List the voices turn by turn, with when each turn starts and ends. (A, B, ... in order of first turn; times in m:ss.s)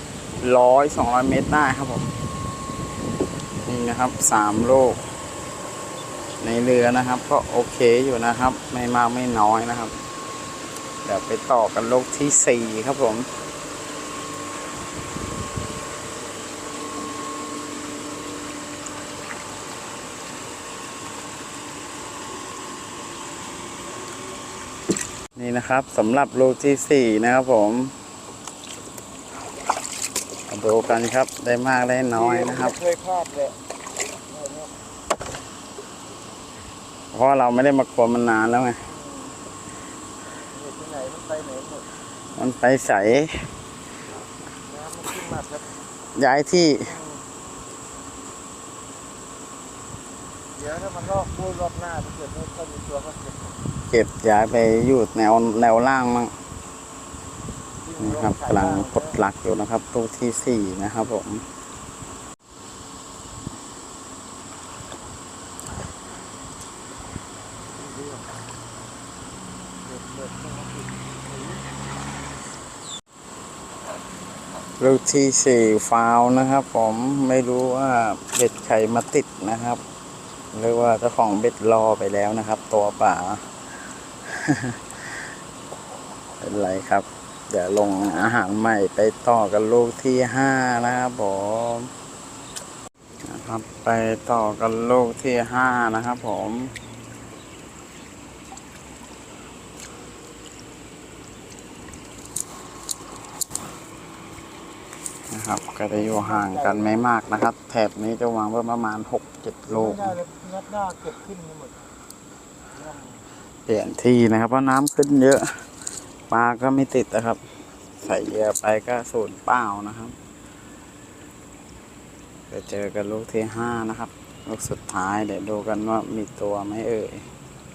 0:00.4-0:02.1 A
0:03.6-0:05.0 A
0:06.4-0:09.9 A
0:11.0-0:13.3 A
0:25.4-0:27.9 A
0:30.5-0:32.7 A
0:32.1-0:33.6 B
0:34.3-0:34.7 B
0:37.1-0:38.8 A
0:38.8-0:39.4 B
0:40.5-0:41.8 B
0:42.4-0:43.4 A
0:44.6-0:45.6 B
0:46.2-0:46.9 A
0:46.8-0:47.2 B
0:50.6-0:53.6 B
0:53.9-0:56.3 A
0:57.8-0:59.2 B
0:58.0-1:01.4 A
1:07.8-1:08.3 B
1:09.8-1:11.6 B
1:14.8-1:19.8 A
1:20.5-1:23.5 A
1:24.3-1:25.2 A
1:26.4-1:31.9 A
1:33.3-1:36.7 A
1:45.3-1:50.2 A
1:46.0-1:47.1 B
1:49.7-1:51.9 B
1:52.8-1:53.2 B
1:53.7-1:55.5 A
1:56.3-1:57.4 A
1:58.0-2:00.2 A
2:02.5-2:07.3 A